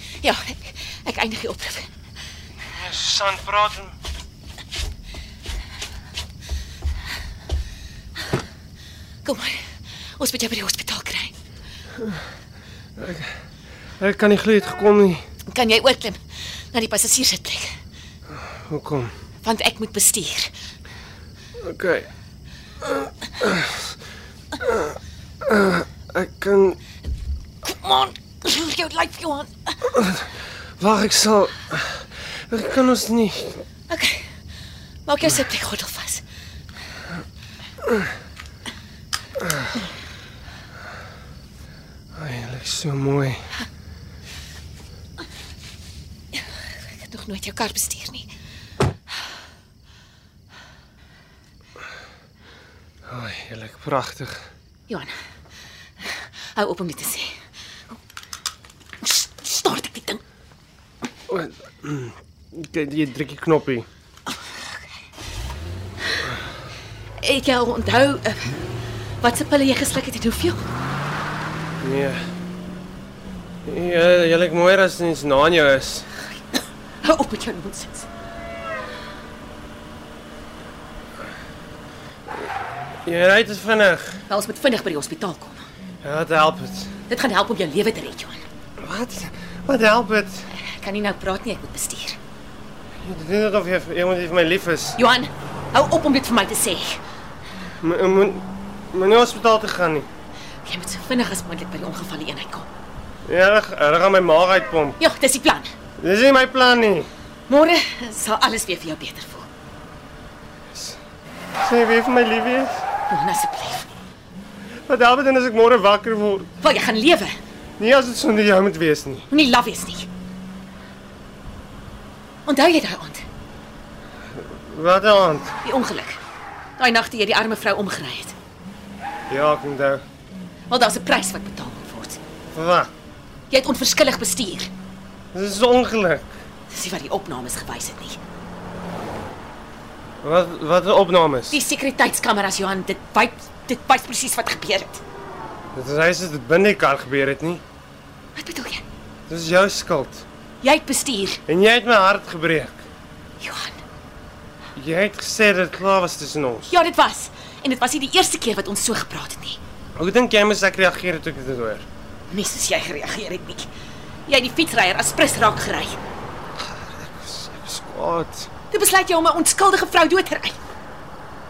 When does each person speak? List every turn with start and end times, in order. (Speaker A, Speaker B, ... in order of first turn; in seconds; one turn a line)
Speaker A: 0.2-1.9
Speaker B: 2.6-4.0
Speaker A: 9.2-11.4
Speaker B: 13.0-13.3
Speaker B: 14.0-15.2
Speaker A: 15.5-17.8
Speaker B: 18.3-19.1
Speaker A: 19.4-20.5
Speaker B: 21.6-22.1
Speaker B: 22.8-23.9
Speaker B: 24.6-26.8
Speaker A: 27.6-29.8
Speaker B: 29.9-33.6
Speaker A: 33.9-34.3
Speaker A: 35.1-36.2
Speaker B: 42.1-43.5
Speaker A: 46.9-48.3
Speaker B: 53.1-54.5
Speaker A: 54.9-55.2
Speaker A: 56.0-57.4
Speaker A: 59.0-60.2
Speaker B: 61.3-63.9
Speaker A: 67.2-68.7
Speaker A: 69.2-70.7
Speaker B: 71.8-72.2
Speaker B: 73.7-76.1
Speaker A: 77.0-78.1
Speaker B: 83.0-84.2
Speaker A: 84.3-85.6
Speaker B: 86.0-86.9
Speaker A: 87.1-88.5
Speaker B: 88.8-90.5
Speaker A: 90.5-92.2
Speaker B: 93.0-95.0
Speaker A: 95.0-97.0
Speaker B: 97.8-100.1
Speaker A: 100.7-102.7
Speaker B: 103.3-105.0
Speaker A: 105.0-105.7
Speaker B: 106.0-107.1
Speaker A: 107.5-109.5
Speaker B: 110.7-111.0
Speaker B: 111.6-112.8
Speaker A: 113.1-114.0
Speaker B: 114.9-116.5
Speaker A: 116.6-117.4
Speaker B: 117.8-119.3
Speaker A: 119.3-120.1
Speaker A: 122.5-123.2
Speaker B: 124.3-125.5
Speaker A: 125.6-126.2
Speaker A: 126.8-128.3
Speaker B: 129.3-130.1
Speaker A: 130.7-132.2
Speaker B: 132.5-132.9
Speaker A: 133.5-134.7
Speaker B: 135.3-136.4
Speaker A: 136.7-138.2
Speaker B: 140.2-141.6
Speaker A: 141.5-145.0
Speaker B: 145.8-147.6
Speaker A: 148.4-148.8
Speaker B: 149.3-150.2
Speaker A: 150.6-151.4
Speaker B: 151.5-152.8
Speaker A: 153.4-153.8
Speaker B: 154.8-156.8
Speaker A: 156.7-159.6
Speaker B: 160.0-161.9
Speaker A: 162.3-163.7
Speaker A: 164.3-166.0
Speaker B: 166.6-168.5
Speaker A: 168.7-170.6